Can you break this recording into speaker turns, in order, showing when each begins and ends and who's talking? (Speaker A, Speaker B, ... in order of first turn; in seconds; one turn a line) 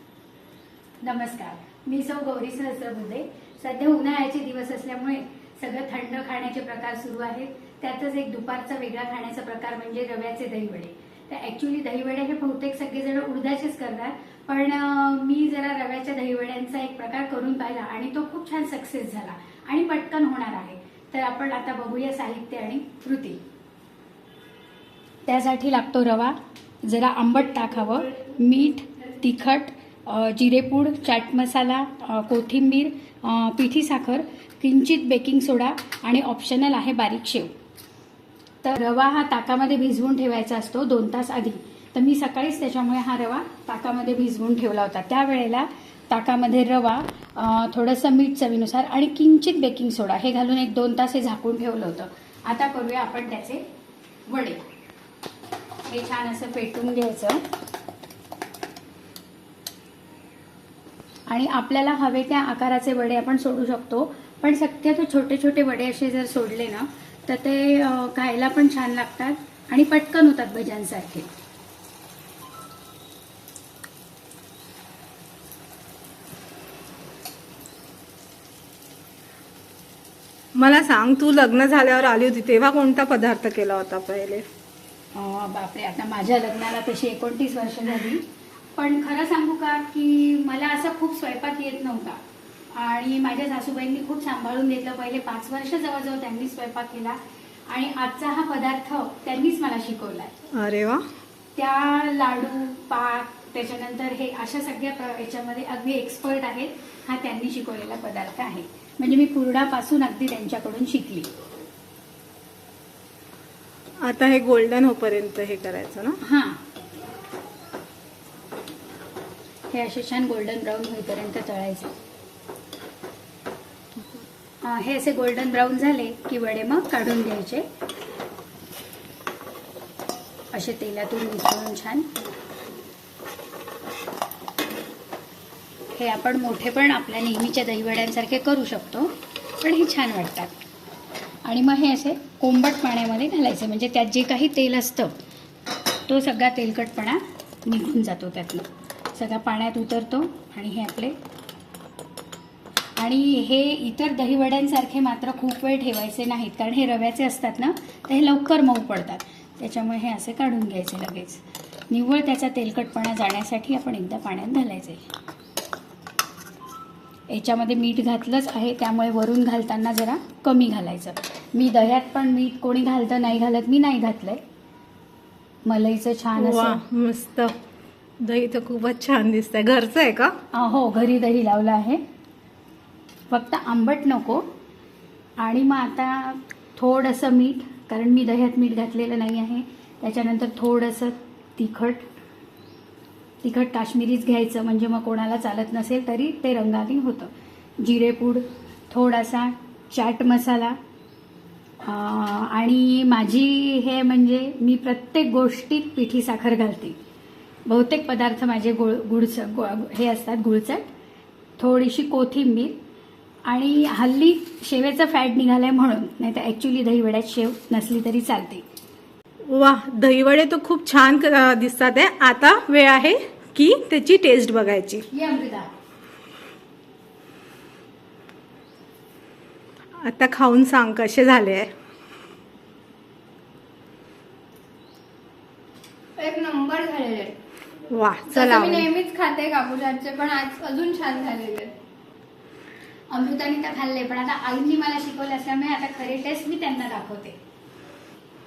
Speaker A: 1.0-23.4
Speaker A: 25.3-37.5
Speaker A: 38.6-53.6
Speaker A: 54.3-54.6
Speaker A: 55.9-57.4
Speaker A: 61.3-71.3
Speaker B: 80.6-84.5
Speaker A: 85.1-88.2
Speaker A: 88.8-92.2
Speaker A: 92.7-97.2
Speaker A: 97.7-100.3
Speaker B: 100.5-101.0
Speaker A: 101.6-111.3
Speaker B: 114.0-116.2
Speaker A: 116.2-116.6
Speaker A: 119.7-121.9
Speaker A: 124.6-127.7
Speaker A: 130.5-132.1
Speaker A: 135.9-140.6
Speaker A: 141.4-145.1
Speaker A: 146.1-151.2
Speaker A: 153.0-165.1
Speaker A: 167.3-174.4
Speaker A: 175.7-176.8
Speaker B: 176.4-177.5
Speaker B: 178.2-180.3
Speaker A: 180.5-182.0
Speaker A: 183.3-184.4
Speaker A: 185.4-192.0
Speaker A: 193.4-200.8
Speaker A: 201.8-207.0
Speaker A: 207.7-210.9
Speaker A: 211.6-212.8
Speaker A: 213.5-218.6
Speaker B: 219.5-225.1
Speaker A: 225.1-225.7
Speaker B: 230.0-231.7
Speaker C: 236.2-237.4
Speaker B: 237.9-238.9
Speaker C: 238.3-241.8
Speaker A: 243.1-247.4